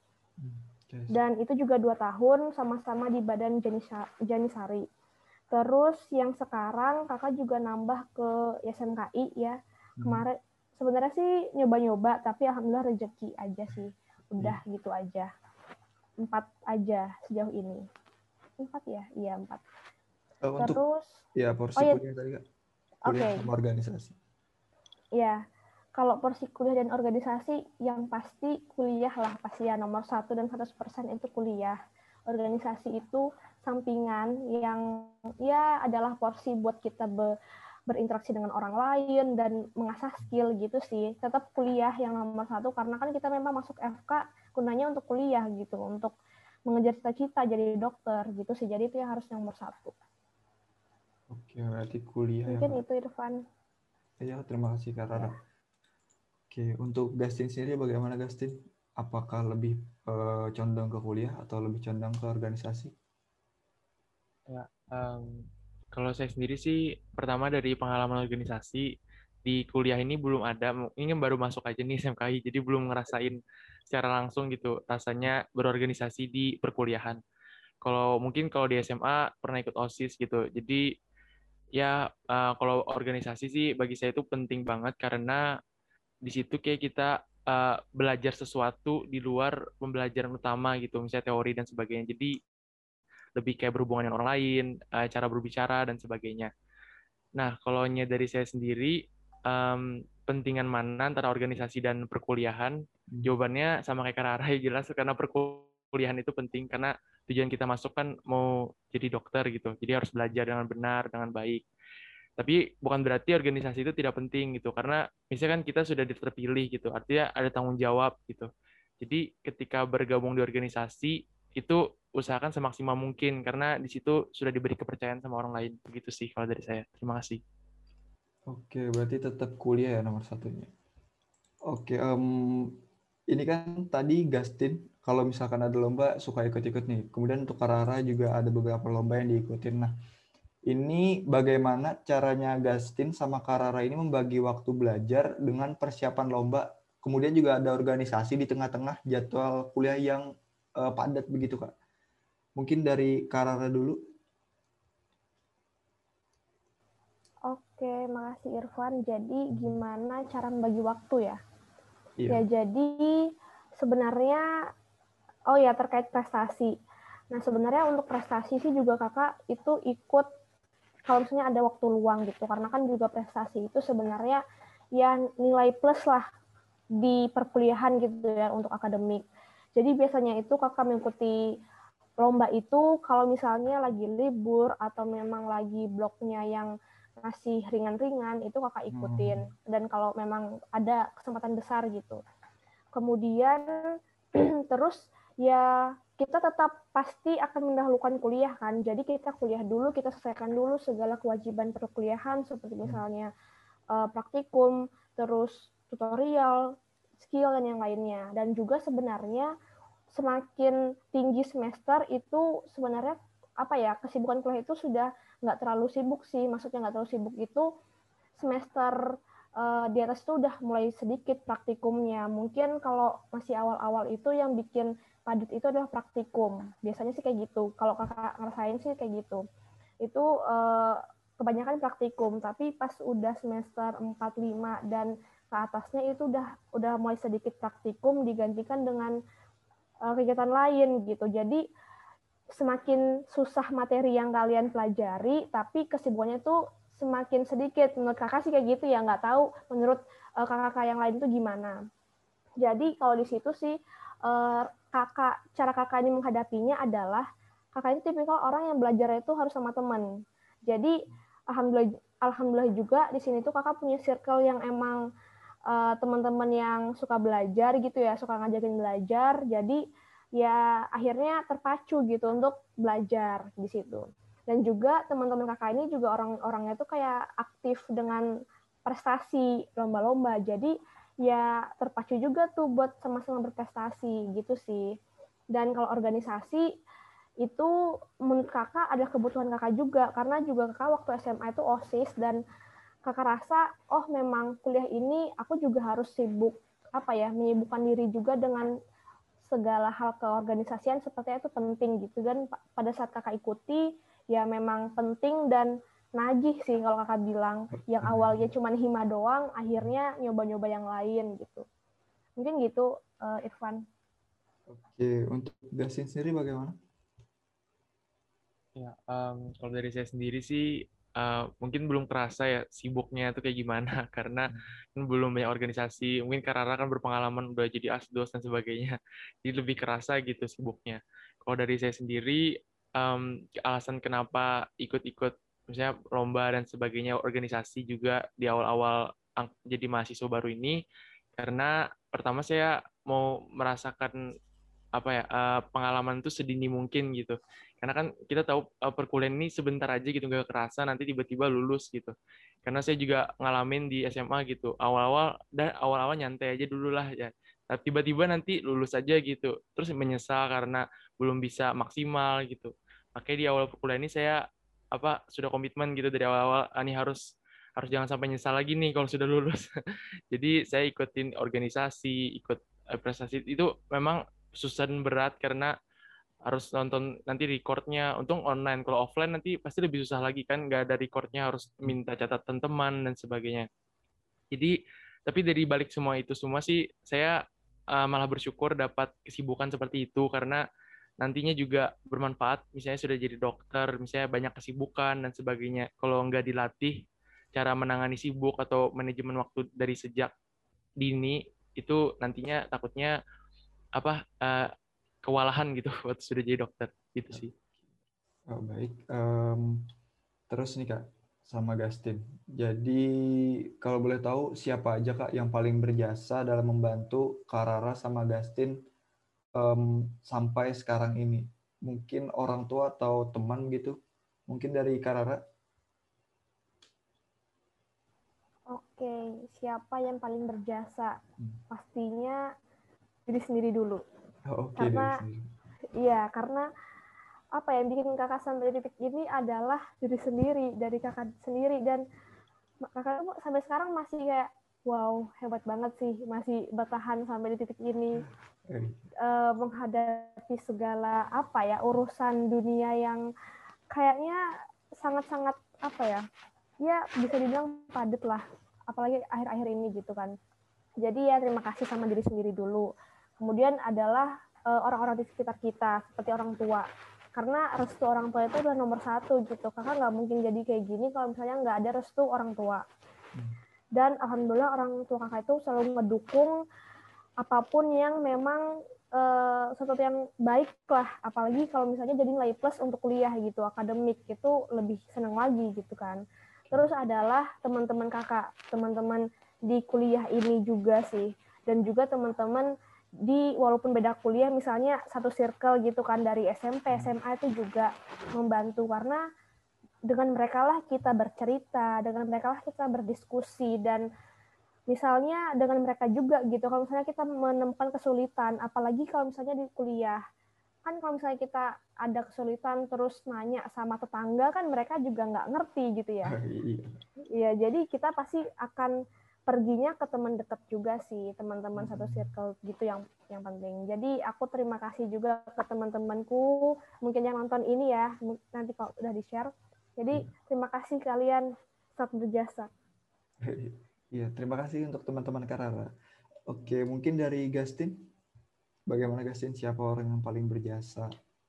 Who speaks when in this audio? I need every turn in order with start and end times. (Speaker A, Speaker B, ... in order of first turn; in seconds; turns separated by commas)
Speaker A: 0.4-1.1, Speaker B: 1.1-4.8, Speaker B: 5.5-15.3, Speaker A: 10.0-10.3, Speaker B: 16.2-17.8, Speaker B: 18.6-19.6, Speaker A: 20.4-20.8, Speaker B: 20.6-21.2, Speaker A: 21.3-22.4, Speaker B: 23.1-23.4, Speaker A: 23.1-24.2, Speaker B: 25.1-25.4, Speaker B: 25.9-31.8, Speaker B: 32.3-37.3, Speaker B: 37.9-46.1, Speaker B: 46.7-49.9, Speaker A: 51.3-52.8, Speaker B: 52.5-53.4, Speaker A: 54.2-55.4, Speaker A: 56.5-62.9, Speaker C: 64.5-68.9, Speaker C: 69.4-77.2, Speaker C: 77.8-80.9, Speaker C: 81.8-85.4, Speaker C: 86.2-92.3, Speaker C: 93.3-96.5, Speaker C: 97.3-111.6, Speaker C: 112.4-118.5, Speaker C: 119.0-127.4, Speaker A: 128.5-130.7, Speaker A: 131.7-132.8, Speaker A: 133.3-139.9, Speaker A: 140.7-150.2, Speaker A: 150.8-151.7, Speaker A: 152.6-154.0, Speaker B: 157.5-161.4, Speaker A: 162.2-162.4, Speaker B: 162.3-163.3, Speaker B: 163.8-164.4, Speaker B: 165.5-166.7, Speaker B: 167.3-170.3, Speaker B: 171.1-174.4, Speaker B: 174.9-176.2, Speaker B: 177.0-179.2, Speaker B: 179.8-181.4, Speaker B: 182.2-186.7, Speaker B: 187.2-192.2, Speaker A: 188.9-189.5, Speaker B: 192.9-203.3, Speaker B: 203.9-209.5, Speaker B: 210.1-217.7, Speaker B: 218.4-229.4, Speaker B: 230.0-239.2, Speaker B: 240.0-241.6, Speaker B: 242.6-251.8, Speaker B: 252.6-260.1, Speaker B: 260.7-260.9, Speaker B: 261.5-265.0, Speaker B: 265.7-269.8, Speaker B: 270.4-278.2, Speaker B: 278.9-284.9, Speaker B: 285.5-286.6, Speaker B: 287.4-287.7, Speaker B: 288.2-292.4, Speaker B: 293.1-298.7, Speaker B: 299.4-311.6, Speaker A: 308.0-308.4, Speaker B: 312.4-313.8, Speaker A: 314.7-316.8, Speaker C: 318.8-340.8, Speaker C: 341.4-344.3, Speaker C: 344.9-367.2, Speaker C: 367.8-369.7, Speaker C: 370.3-375.7, Speaker C: 376.4-383.7, Speaker C: 384.5-390.6, Speaker C: 391.2-397.0, Speaker C: 397.5-400.3, Speaker C: 401.0-403.2, Speaker C: 403.9-404.7, Speaker C: 405.2-407.5, Speaker A: 408.5-409.9, Speaker A: 410.5-418.8, Speaker A: 419.5-424.0, Speaker A: 424.5-425.4, Speaker B: 428.7-431.2, Speaker B: 431.7-432.4, Speaker B: 433.3-434.0, Speaker A: 434.5-435.5, Speaker B: 434.8-435.2, Speaker B: 435.9-436.7, Speaker B: 437.5-442.0, Speaker B: 442.9-448.2, Speaker A: 448.7-449.0, Speaker B: 449.2-453.2, Speaker B: 453.9-454.4, Speaker B: 455.0-456.2, Speaker B: 456.8-460.3, Speaker B: 461.0-462.9, Speaker B: 463.4-472.8, Speaker B: 473.9-476.5, Speaker B: 477.4-486.2, Speaker B: 486.7-492.7, Speaker B: 493.2-499.2, Speaker B: 500.1-504.1, Speaker B: 504.9-510.2, Speaker B: 510.9-516.3, Speaker A: 516.2-517.0, Speaker B: 517.3-518.9, Speaker B: 519.5-532.7, Speaker A: 521.8-522.3, Speaker A: 533.4-535.9, Speaker A: 536.5-538.1, Speaker A: 538.9-541.1